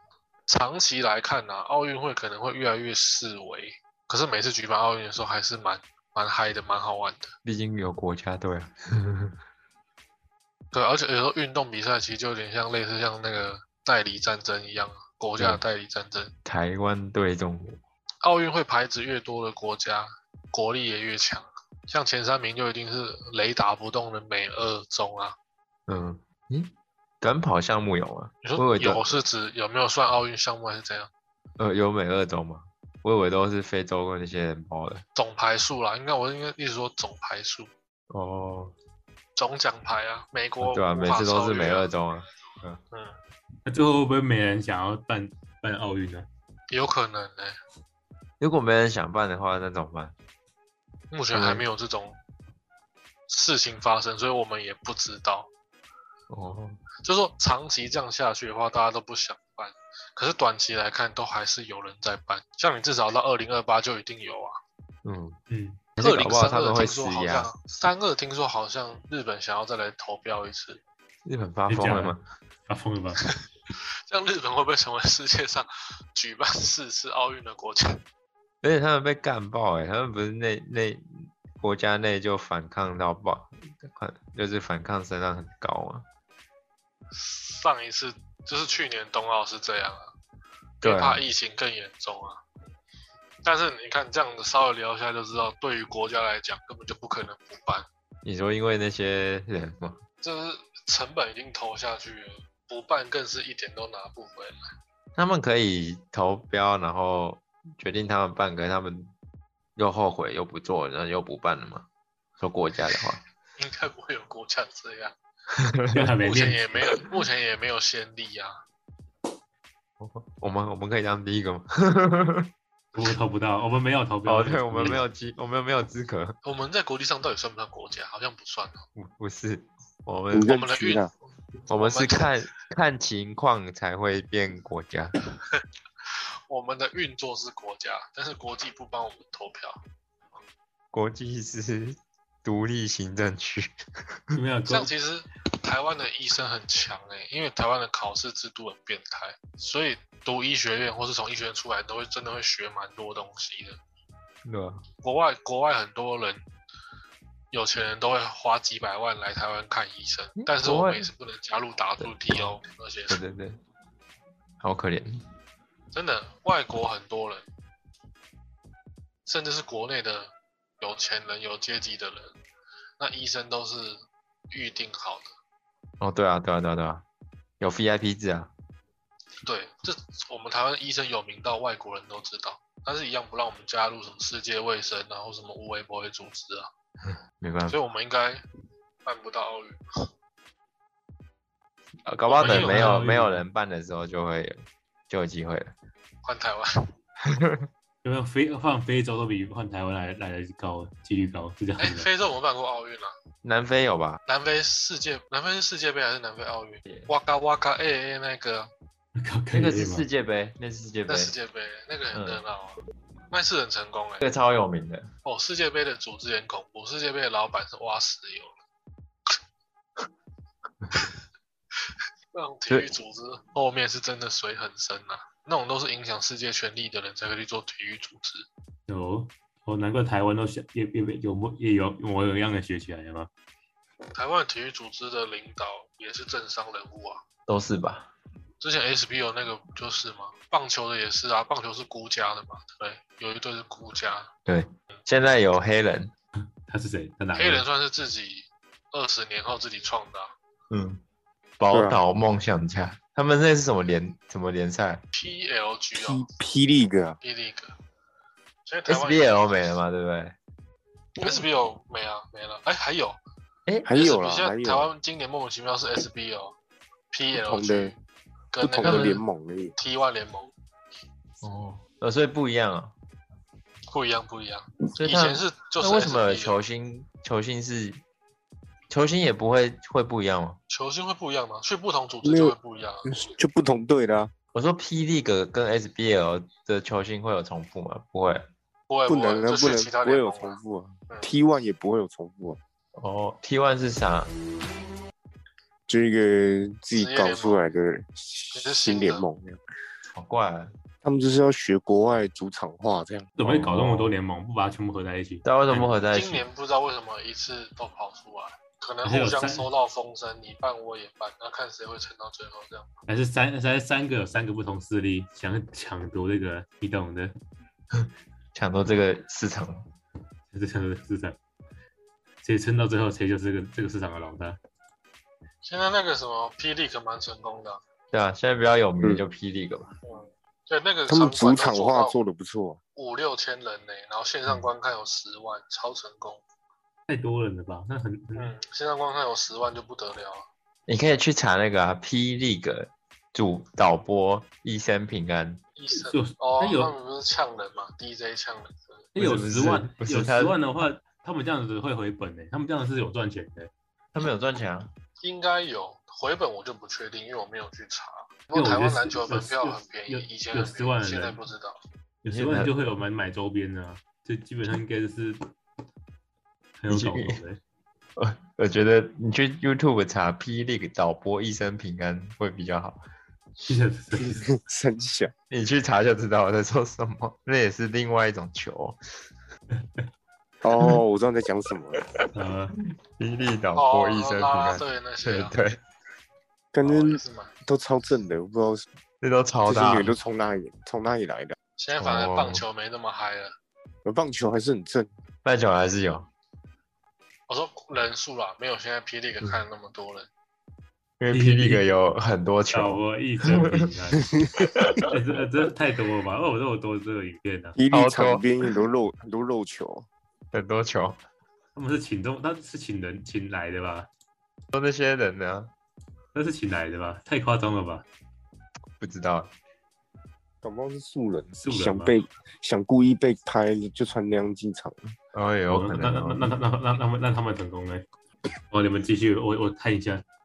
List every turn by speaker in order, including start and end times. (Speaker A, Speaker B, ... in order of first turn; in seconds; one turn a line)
Speaker A: 0.5-7.3
Speaker B: 7.4-9.3
Speaker A: 10.7-16.3
Speaker B: 16.4-17.8
Speaker A: 18.2-25.4
Speaker B: 25.9-29.2
Speaker A: 28.4-31.1
Speaker B: 31.6-35.0
Speaker A: 35.1-37.7
Speaker B: 38.1-38.7
Speaker A: 39.4-41.9
Speaker B: 40.6-42.8
Speaker C: 43.6-46.3
Speaker A: 46.7-47.6
Speaker B: 48.4-50.1
Speaker A: 51.1-52.2
Speaker B: 51.3-51.6
Speaker A: 53.3-55.5
Speaker B: 56.3-56.8
Speaker A: 57.0-64.5
Speaker B: 65.0-65.4
Speaker C: 65.5-65.8
Speaker B: 66.0-67.5
Speaker A: 66.0-70.8
Speaker B: 71.2-72.2
Speaker C: 71.7-73.2
Speaker A: 74.1-78.0
Speaker B: 78.6-86.0
Speaker A: 87.1-90.1
Speaker A: 90.8-92.4
Speaker B: 90.8-91.2
Speaker A: 93.4-97.8
Speaker B: 98.2-100.0
Speaker A: 100.2-104.6
Speaker B: 105.2-109.1
Speaker B: 109.8-111.9
Speaker B: 112.4-113.2
Speaker A: 113.6-115.1
Speaker B: 115.5-116.1
Speaker C: 115.9-116.8
Speaker A: 116.2-118.5
Speaker B: 120.0-122.5
Speaker C: 122.9-125.0
Speaker B: 124.2-126.4
Speaker A: 126.4-128.8
Speaker B: 128.9-130.6
Speaker D: 130.3-131.1
Speaker A: 130.5-131.1
Speaker B: 131.7-135.1
Speaker A: 131.7-132.3
Speaker A: 136.5-139.8
Speaker B: 140.9-144.3
Speaker C: 144.3-144.9
Speaker A: 144.7-153.8
Speaker B: 154.4-154.8
Speaker A: 155.0-156.4
Speaker A: 157.5-163.2
Speaker B: 160.4-161.1
Speaker B: 162.0-163.6
Speaker B: 164.6-165.2
Speaker A: 165.9-167.4
Speaker A: 169.2-172.3
Speaker A: 173.0-174.0
Speaker A: 174.5-175.3
Speaker B: 176.0-177.0
Speaker B: 177.6-178.5
Speaker A: 179.4-186.7
Speaker B: 187.0-187.8
Speaker A: 187.7-188.4
Speaker A: 189.0-189.8
Speaker B: 192.1-195.7
Speaker A: 192.3-193.0
Speaker C: 192.4-193.4
Speaker A: 196.2-196.7
Speaker B: 197.2-197.7
Speaker C: 198.0-202.1
Speaker A: 201.8-203.1
Speaker B: 203.4-204.2
Speaker A: 204.3-208.7
Speaker C: 209.2-210.0
Speaker B: 209.5-211.3
Speaker A: 211.1-212.8
Speaker B: 212.1-212.4
Speaker A: 213.3-214.2
Speaker B: 214.2-215.1
Speaker A: 215.2-218.5
Speaker A: 222.3-228.4
Speaker C: 228.9-233.3
Speaker A: 234.1-237.2
Speaker B: 237.5-238.1
Speaker A: 238.6-244.3
Speaker B: 244.4-246.1
Speaker C: 246.7-247.6
Speaker A: 247.3-250.3
Speaker B: 250.7-251.0
Speaker B: 251.6-255.0
Speaker D: 251.7-252.0
Speaker A: 255.1-256.2
Speaker D: 255.9-257.2
Speaker A: 257.2-257.7
Speaker A: 258.6-259.7
Speaker B: 258.9-260.4
Speaker A: 261.2-263.2
Speaker D: 263.8-264.9
Speaker A: 263.9-266.5
Speaker A: 267.1-268.0
Speaker D: 267.3-267.9
Speaker A: 268.5-269.2
Speaker D: 268.6-269.8
Speaker B: 268.8-269.2
Speaker A: 269.8-270.5
Speaker B: 271.4-272.9
Speaker A: 273.9-276.6
Speaker B: 274.9-278.0
Speaker B: 278.9-280.6
Speaker A: 280.7-283.2
Speaker D: 282.2-284.3
Speaker B: 284.5-288.5
Speaker A: 288.9-291.3
Speaker D: 289.1-292.6
Speaker B: 292.9-294.3
Speaker D: 295.9-299.6
Speaker A: 296.9-297.6
Speaker A: 298.5-299.2
Speaker B: 300.1-300.7
Speaker D: 301.0-303.3
Speaker C: 303.4-305.9
Speaker B: 303.4-304.1
Speaker B: 305.4-306.4
Speaker A: 306.1-312.9
Speaker C: 309.0-309.7
Speaker C: 313.1-317.3
Speaker B: 318.0-319.9
Speaker C: 320.5-321.4
Speaker C: 322.4-324.6
Speaker A: 325.6-327.8
Speaker B: 328.1-329.9
Speaker A: 330.0-332.1
Speaker D: 331.1-332.8
Speaker A: 332.9-336.4
Speaker C: 337.1-338.5
Speaker A: 338.4-340.4
Speaker B: 340.9-345.6
Speaker A: 345.8-349.0
Speaker C: 345.9-346.9
Speaker C: 349.1-353.7
Speaker B: 349.2-350.6
Speaker B: 354.1-354.9
Speaker A: 355.2-361.8
Speaker C: 358.5-361.4
Speaker C: 362.2-365.4
Speaker B: 362.3-362.7
Speaker C: 366.8-367.6
Speaker B: 366.9-367.4
Speaker B: 368.1-373.0
Speaker C: 373.6-374.4
Speaker D: 374.2-375.3
Speaker B: 375.5-379.0
Speaker D: 380.6-382.1
Speaker C: 382.3-382.8
Speaker B: 383.2-385.8
Speaker A: 383.8-385.5
Speaker D: 386.7-388.8
Speaker A: 386.8-387.5
Speaker B: 389.2-390.1
Speaker D: 389.6-391.5
Speaker A: 391.8-393.5
Speaker B: 392.0-392.6
Speaker D: 394.0-395.1
Speaker B: 395.4-396.3
Speaker A: 397.5-400.3
Speaker B: 401.2-403.9
Speaker C: 401.3-401.9
Speaker C: 402.7-404.3
Speaker D: 404.2-404.7
Speaker B: 404.6-405.1
Speaker C: 405.1-407.8
Speaker D: 407.8-410.1
Speaker B: 407.9-408.4
Speaker B: 410.5-411.2
Speaker C: 411.8-414.1
Speaker B: 414.7-415.7
Speaker C: 416.3-418.0
Speaker B: 419.0-419.5
Speaker D: 420.6-425.1
Speaker C: 421.6-422.1
Speaker B: 425.3-426.5
Speaker C: 425.7-428.0
Speaker C: 428.7-430.2